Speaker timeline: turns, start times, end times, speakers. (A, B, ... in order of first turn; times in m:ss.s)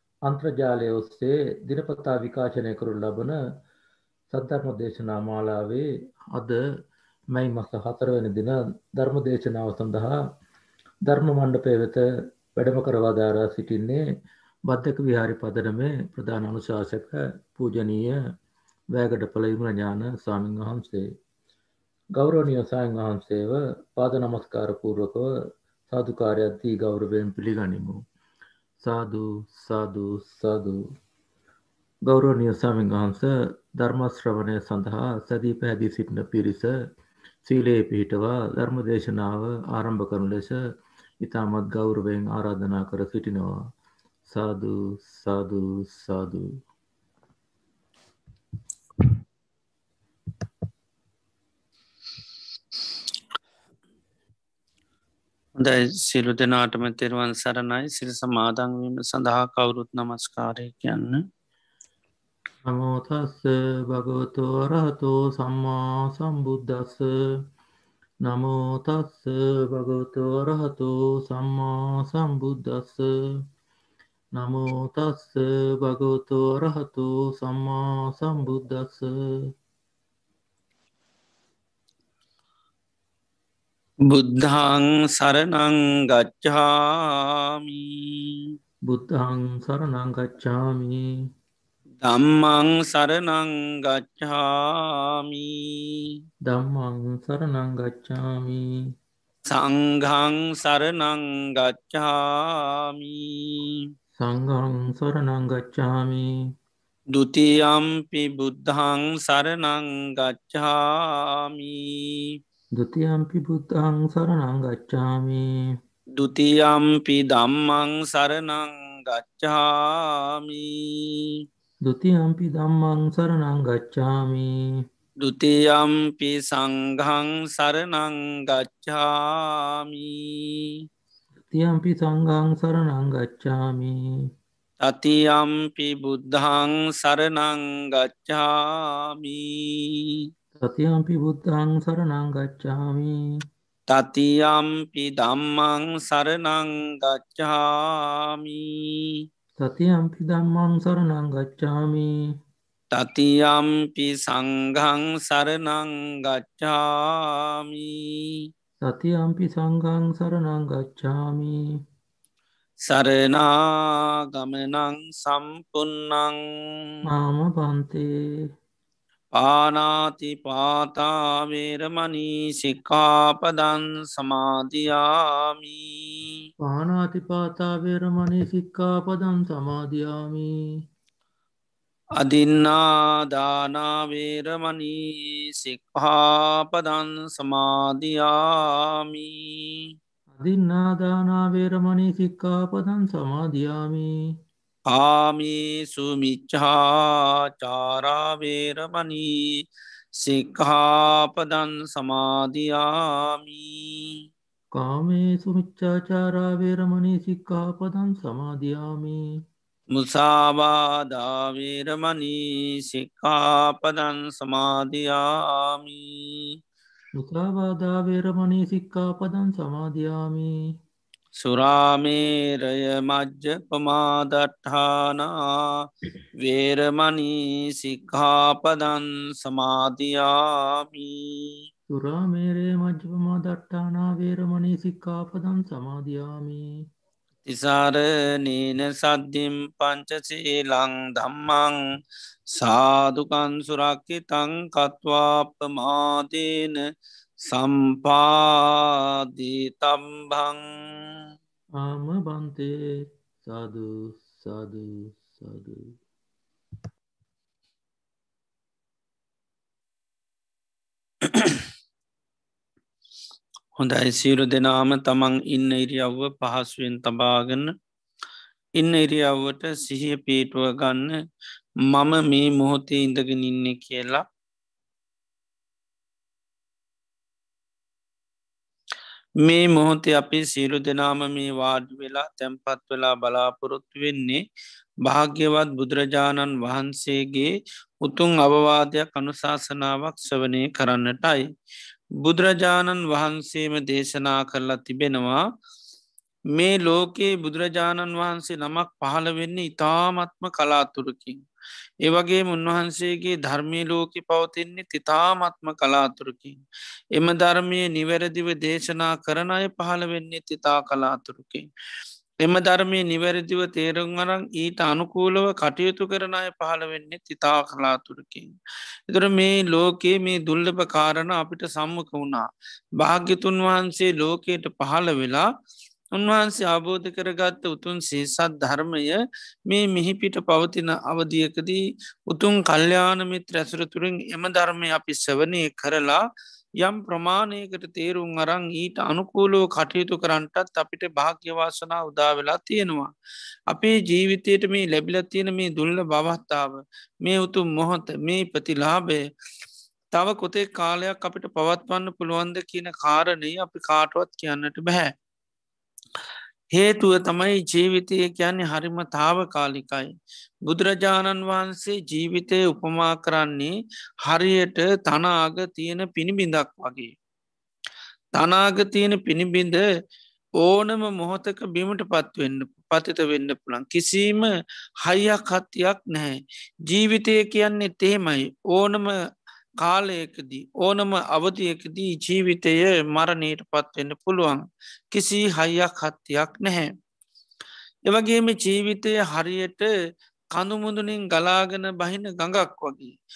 0:00.2-0:03.4 A
0:04.3-0:06.6 A
0:07.3-0:10.2 A
0:11.0-0:14.0 A
0:14.7-0:18.2 A
0:18.9-0:21.1 A
0:22.1-0:28.0 A
0:28.8-0:30.8 A
0:32.0-0:36.8 A
0:37.4-0:40.6 A
0:41.2-0:43.7 A
0:44.3-0:46.6 A
0:55.6-1:01.2 B
1:02.6-1:07.4 A
1:08.2-1:13.0 A
1:14.3-1:19.5 A
1:24.1-1:28.5 B
1:28.8-1:31.1 A
1:32.0-1:36.1 B
1:36.4-1:38.8 A
1:39.5-1:43.8 B
1:44.2-1:46.3 A
1:47.1-1:52.4 B
1:52.7-1:55.5 A
1:56.2-2:01.4 B
2:01.8-2:04.8 A
2:05.2-2:10.8 B
2:11.5-2:14.0 A
2:14.8-2:20.2 B
2:20.6-2:23.2 A
2:23.9-2:29.2 B
2:29.6-2:32.2 A
2:32.9-2:38.4 B
2:38.8-2:41.6 A
2:42.9-2:46.4 B
2:47.0-2:48.1 A
2:49.4-2:56.4 B
2:56.6-3:00.5 A
3:02.2-3:09.9 B
3:10.3-3:14.1 A
3:14.9-3:24.2 B
3:24.7-3:29.2 A
3:29.9-3:36.6 B
3:37.2-3:40.5 A
3:41.3-3:51.6 B
3:51.9-3:56.7 A
3:57.4-4:01.8 B
4:02.5-4:06.8 B
4:07.4-4:11.0 B
4:11.8-4:15.9 A
4:21.2-4:21.7 B
4:23.8-4:27.7 B
4:28.8-4:31.2 B
4:31.8-4:34.2 B
4:39.4-4:44.4 B
4:45.0-4:51.5 B
4:52.2-4:55.4 B
4:56.5-5:01.4 B
5:02.0-5:06.6 B
5:07.1-5:11.7 B
5:12.4-5:18.5 B
5:19.1-5:25.5 B
5:26.1-5:36.2 B
5:36.8-5:43.1 B
5:43.7-5:49.2 B
5:50.1-5:55.1 B
5:56.7-6:00.1 B
6:00.6-6:07.1 B
6:08.3-6:09.8 B
6:10.6-6:14.5 B
6:15.0-6:19.1 B
6:19.8-6:26.9 B
6:28.0-6:29.9 B
6:30.5-6:33.2 B